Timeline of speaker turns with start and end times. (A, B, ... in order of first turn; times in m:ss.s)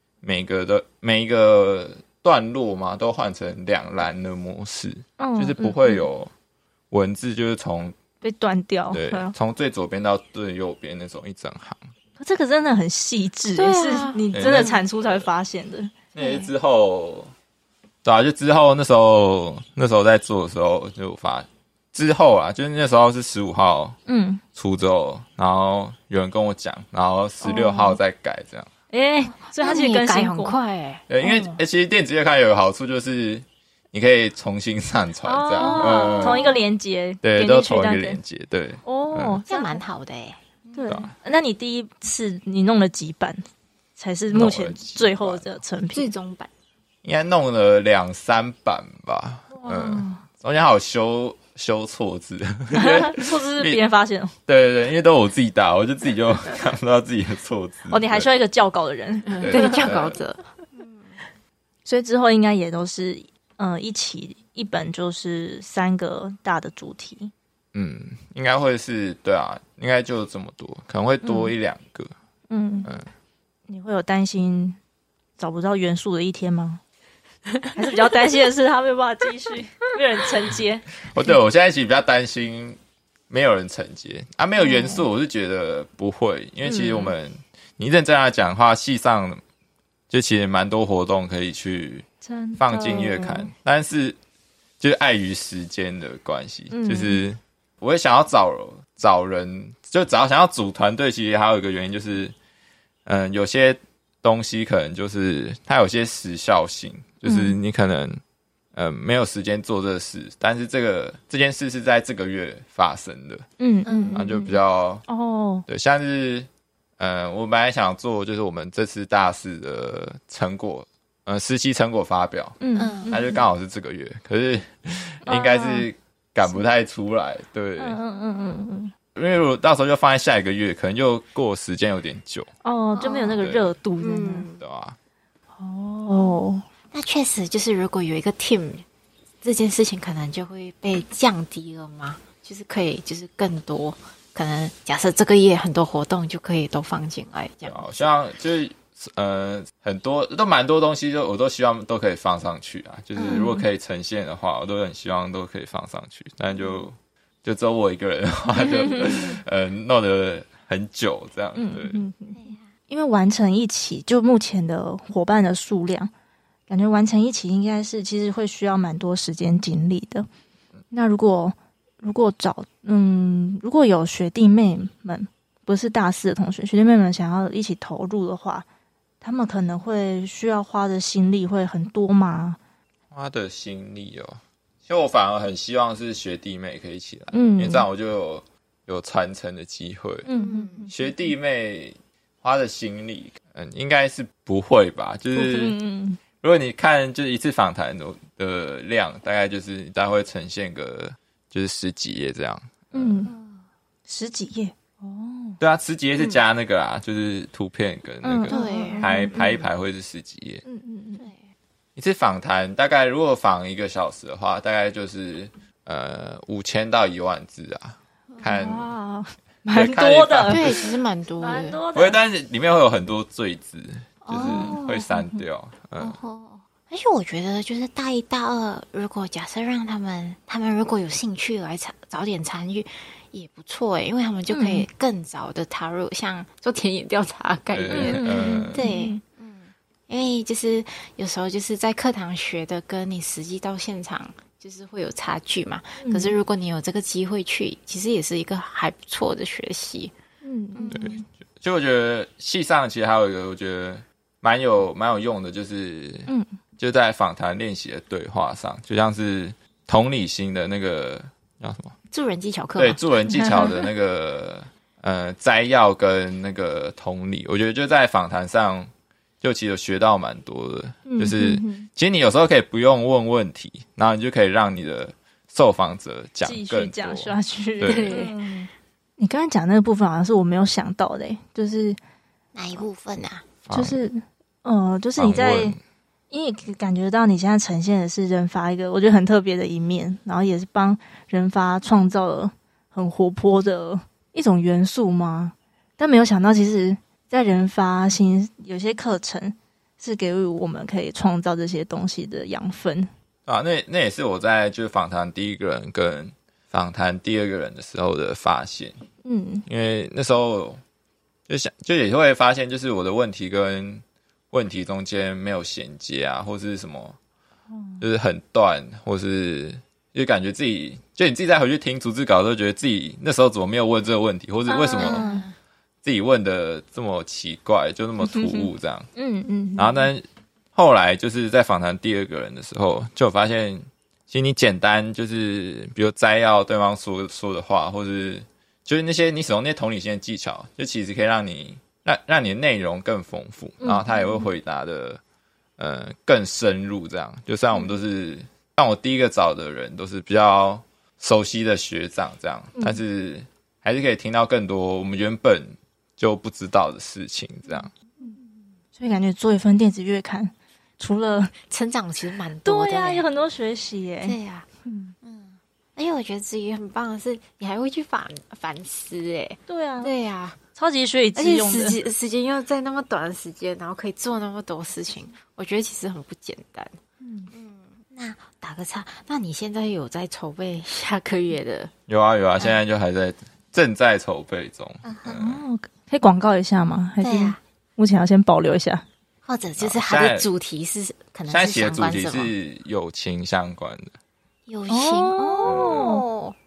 0:00.2-0:06.3 A
0:05.2-0:06.1 B
0:06.9-0:08.0 A
0:08.2-0:09.3 B
0:08.9-0:11.9 A
0:12.2-0:15.9 B
0:13.6-0:14.7 C
0:14.3-0:15.3 A
0:16.2-0:17.3 A
0:16.2-0:16.5 C
0:18.0-0:24.0 A
0:24.1-0:24.4 B
0:24.5-0:28.7 A
0:27.4-0:28.0 B
0:28.9-0:30.6 B
0:29.5-0:31.6 C
0:31.1-0:36.5 A
0:35.2-0:38.2 B
0:35.6-0:36.6 C
0:37.2-0:39.4 A
0:38.9-0:39.8 B
0:39.5-0:41.0 C
0:40.7-0:43.4 B
0:40.9-0:41.1 A
0:44.0-0:46.1 B
0:44.3-0:45.6 A
0:45.9-0:46.5 C
0:47.0-0:53.8 A
0:49.6-0:50.2 B
0:52.7-0:54.4 B
0:54.5-0:58.3 A
0:57.9-0:59.9 B
0:59.3-1:01.2 C
0:59.4-1:00.2 A
1:01.9-1:07.3 B
1:07.7-1:12.1 A
1:11.2-1:11.5 B
1:12.5-1:12.9 B
1:13.7-1:14.8 B
1:15.4-1:16.8 B
1:17.7-1:21.0 B
1:21.0-1:22.8 A
1:23.3-1:29.4 A
1:24.6-1:25.1 B
1:26.6-1:27.1 B
1:30.1-1:32.1 A
1:32.2-1:33.5 B
1:32.6-1:34.2 A
1:34.8-1:42.4 A
1:36.7-1:37.2 B
1:43.1-1:48.2 A
1:47.2-1:47.6 B
1:48.8-1:53.5 A
1:53.6-1:55.7 B
1:53.8-1:54.2 C
1:54.1-1:55.0 A
1:55.7-1:56.5 A
1:57.0-2:08.0 A
2:02.6-2:03.3 B
2:02.8-2:03.2 C
2:05.3-2:05.9 B
2:07.8-2:08.9 B
2:09.2-2:12.5 A
2:12.6-2:14.5 B
2:13.0-2:13.5 C
2:13.4-2:13.7 A
2:14.0-2:14.6 C
2:14.6-2:15.0 A
2:15.6-2:16.6 B
2:16.9-2:18.9 C
2:19.4-2:28.0 C
2:27.7-2:42.0 A
2:33.2-2:33.5 C
2:33.2-2:33.6 B
2:38.7-2:39.2 B
2:39.0-2:39.4 C
2:41.6-2:46.1 B
2:42.3-2:42.7 C
2:46.7-2:50.3 B
2:50.9-2:58.6 B
2:59.2-3:02.6 B
3:03.1-3:10.3 A
3:07.3-3:07.9 B
3:10.3-3:11.2 B
3:10.3-3:10.9 C
3:10.9-3:15.8 A
3:15.3-3:16.2 B
3:16.4-3:23.2 A
3:22.9-3:23.4 B
3:23.2-3:23.6 C
3:24.1-3:25.6 B
3:25.6-3:30.6 A
3:26.2-3:26.4 C
3:28.2-3:29.6 B
3:28.5-3:29.7 C
3:30.6-3:31.3 B
3:32.0-3:38.9 A
3:38.4-3:40.8 B
3:39.7-3:40.8 A
3:40.4-3:41.8 C
3:41.4-3:42.2 B
3:41.9-3:46.2 A
3:44.2-3:45.1 C
3:44.4-3:44.8 B
3:46.0-4:10.1 C
3:54.5-3:54.9 B
3:57.7-3:58.9 A
3:57.9-3:59.2 B
4:06.0-4:06.4 B
4:10.4-4:11.2 B
4:10.7-4:11.2 C
4:10.9-4:22.0 A
4:22.1-4:23.7 C
4:22.8-4:28.9 A
4:23.4-4:23.7 B
4:29.4-4:38.2 A
4:31.1-4:31.9 B
4:36.4-4:42.0 B
4:37.8-4:38.4 C
4:42.5-4:43.5 C
4:43.7-4:44.0 A
4:43.7-4:45.8 B
4:45.2-4:45.8 A
4:46.3-5:03.1 B
5:03.5-5:09.0 A
5:09.2-5:09.6 B
5:09.7-5:10.8 A
5:11.5-5:17.2 A
5:17.7-5:18.0 B
5:18.0-5:25.4 A
5:24.7-5:25.5 B
5:25.0-5:25.5 C
5:26.0-5:29.1 A
5:28.2-5:30.1 B
5:29.8-5:45.2 A
5:43.8-5:44.5 B
5:45.8-5:57.9 A
5:59.0-6:01.5 B
6:01.7-6:03.2 C
6:02.6-6:05.2 B
6:04.2-6:04.7 C
6:05.2-6:10.6 C
6:09.7-6:10.1 B
6:10.8-6:12.0 B
6:11.4-6:17.0 C
6:17.2-6:17.5 B
6:17.5-6:21.9 C
6:22.1-6:25.6 A
6:25.0-6:25.5 C
6:25.4-6:29.0 B
6:27.2-6:27.6 C
6:29.4-6:32.5 C
6:29.8-6:30.5 A
6:31.5-6:34.2 A
6:34.7-6:36.6 C
6:34.9-6:36.2 B
6:35.6-6:36.2 A